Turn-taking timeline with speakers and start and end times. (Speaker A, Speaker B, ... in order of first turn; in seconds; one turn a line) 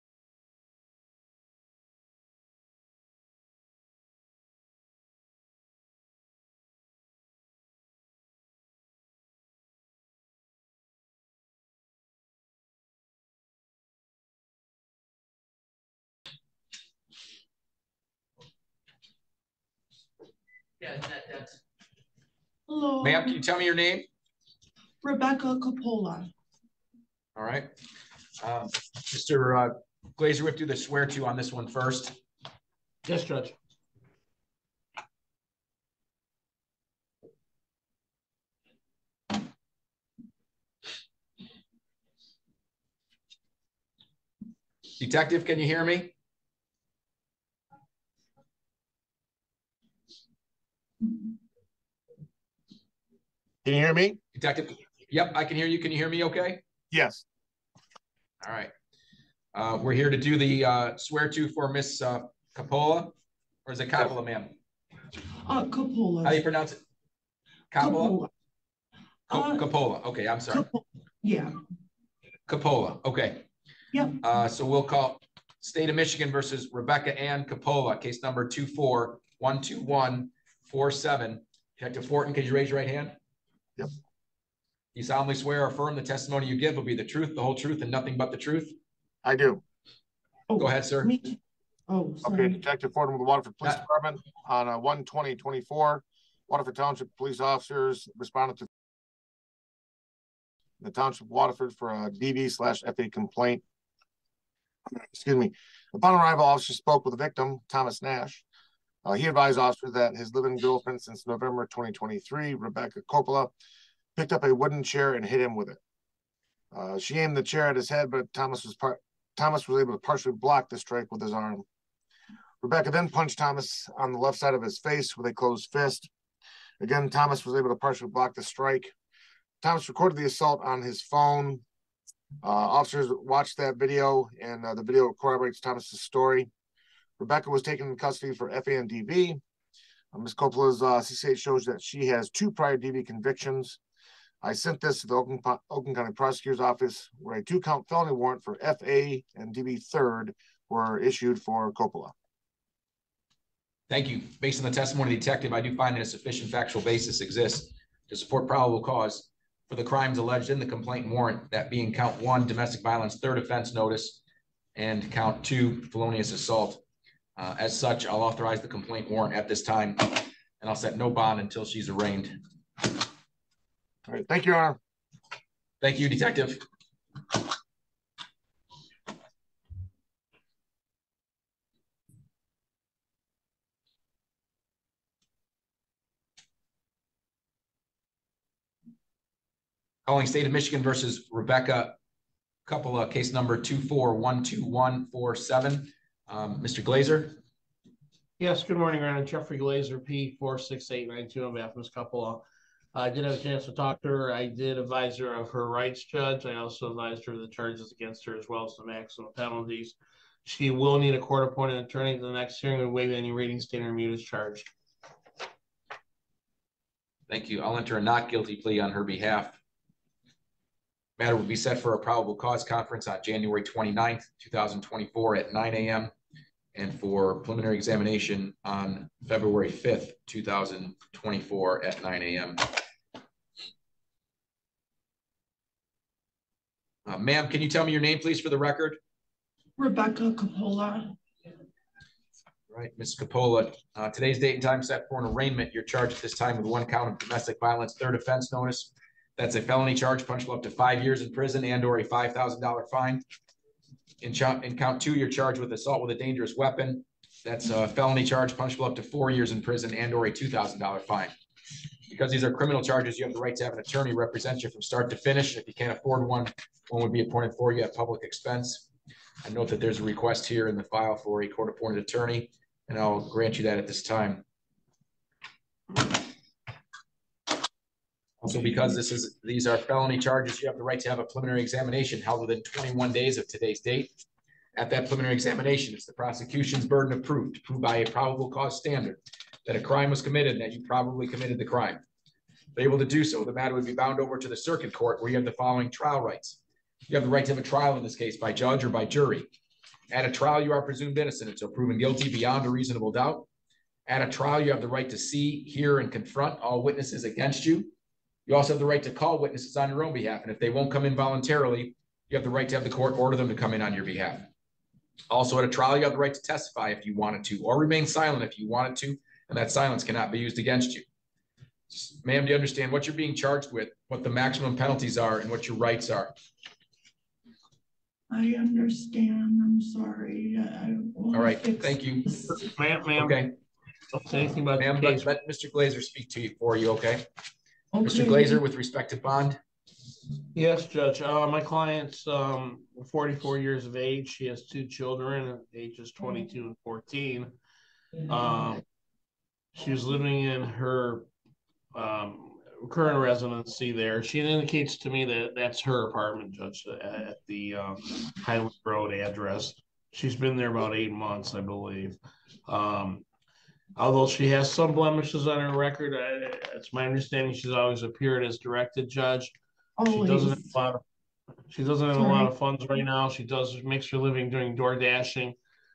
Speaker A: 20.8-21.4
Speaker B: 22.7-23.4
Speaker A: 23.0-24.1
Speaker B: 25.0-26.3
Speaker A: 27.4-27.7
Speaker A: 28.4-32.2
Speaker C: 33.0-33.5
Speaker A: 45.0-46.1
Speaker D: 53.6-54.2
Speaker A: 54.3-56.6
Speaker D: 56.9-57.2
Speaker A: 58.4-58.7
Speaker A: 59.5-63.1
Speaker A: 63.6-64.5
Speaker B: 65.4-66.4
Speaker A: 66.2-66.8
Speaker A: 67.7-68.2
Speaker B: 67.8-68.3
Speaker B: 69.3-69.7
Speaker A: 69.3-70.6
Speaker B: 70.5-71.5
Speaker A: 72.5-73.5
Speaker B: 73.9-74.2
Speaker A: 74.2-83.1
Speaker A: 84.9-88.8
Speaker D: 89.2-89.6
Speaker B: 90.5-92.6
Speaker A: 90.6-91.1
Speaker D: 92.2-98.7
Speaker D: 100.8-103.6
Speaker D: 104.9-108.4
Speaker D: 109.0-113.5
Speaker D: 114.2-115.8
Speaker D: 116.7-121.6
Speaker D: 122.6-126.1
Speaker D: 126.8-128.9
Speaker D: 129.6-131.6
Speaker D: 132.4-136.5
Speaker D: 137.2-139.4
Speaker D: 140.1-143.8
Speaker D: 144.4-152.1
Speaker A: 153.9-164.2
Speaker A: 164.8-166.8
Speaker A: 167.4-172.4
Speaker D: 174.1-174.8
Speaker A: 175.8-176.6
Speaker A: 190.0-191.9
Speaker A: 192.7-197.4
Speaker C: 198.4-214.7
Speaker A: 217.3-219.6
Speaker A: 221.2-226.1
Speaker A: 226.7-232.7
Speaker A: 237.1-239.0
Speaker B: 239.8-241.1
Speaker A: 242.7-253.2
Speaker A: 254.2-261.3
Speaker A: 262.1-268.9
Speaker A: 269.4-274.4
Speaker A: 278.4-284.1
Speaker A: 284.8-292.0
Speaker A: 292.7-299.5
Speaker A: 300.1-303.5
Speaker A: 304.1-307.9
Speaker A: 308.5-314.5
Speaker A: 315.3-321.0
Speaker A: 321.9-326.3
Speaker B: 328.3-332.7
Speaker A: 331.3-332.3
Speaker C: 332.5-333.4
Speaker A: 333.1-333.5
Speaker C: 334.1-335.3
Speaker A: 334.8-337.2
Speaker B: 337.9-338.6
Speaker A: 338.0-339.6
Speaker C: 340.5-347.5
Speaker C: 348.3-348.8
Speaker C: 349.7-351.3
Speaker C: 351.9-363.2
Speaker C: 363.9-371.0
Speaker B: 370.0-370.8
Speaker C: 371.7-375.6
Speaker B: 372.1-372.5